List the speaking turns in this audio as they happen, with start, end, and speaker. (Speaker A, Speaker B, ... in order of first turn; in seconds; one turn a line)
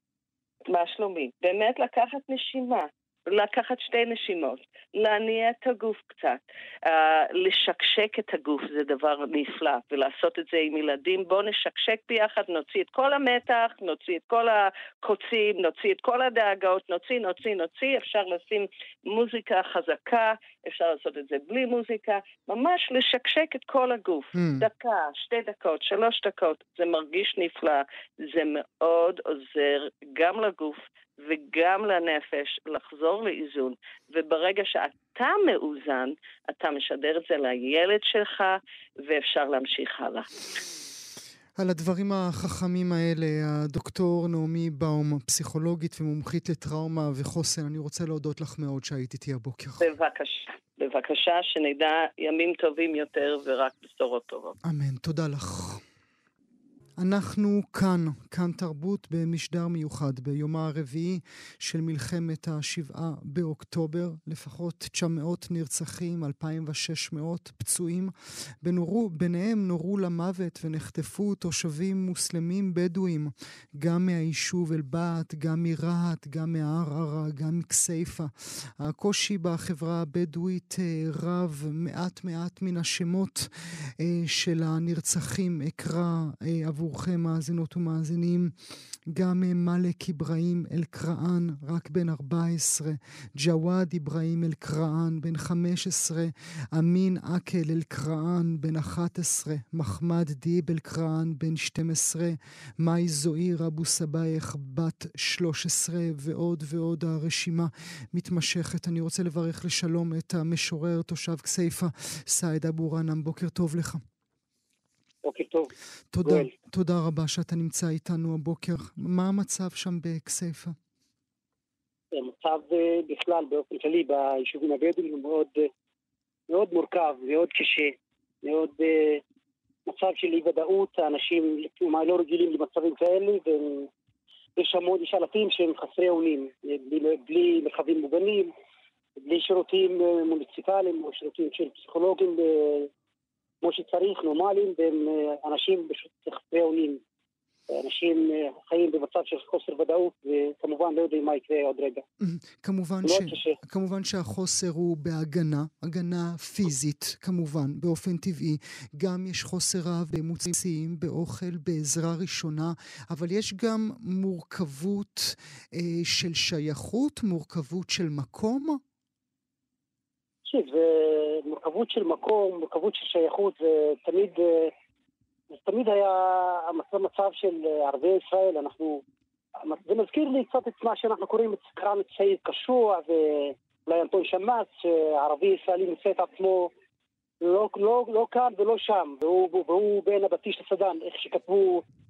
Speaker A: 0.7-40.3
Speaker B: 24.4-24.7
Speaker B: 41.6-49.8
Speaker A: 49.8-54.5
Speaker B: 54.6-55.8
Speaker B: 57.0-88.5
Speaker B: 89.1-114.0
Speaker C: 115.2-115.7
Speaker B: 116.1-120.7
Speaker C: 116.2-116.5
Speaker C: 122.1-125.7
Speaker C: 126.5-129.2
Speaker C: 129.8-133.9
Speaker C: 134.6-138.5
Speaker C: 139.2-142.9
Speaker C: 143.6-147.0
Speaker C: 147.7-152.0
Speaker B: 152.2-168.8
Speaker C: 153.0-153.6
Speaker C: 170.4-174.7
Speaker C: 175.5-179.0
Speaker C: 179.6-186.7
Speaker C: 187.4-191.8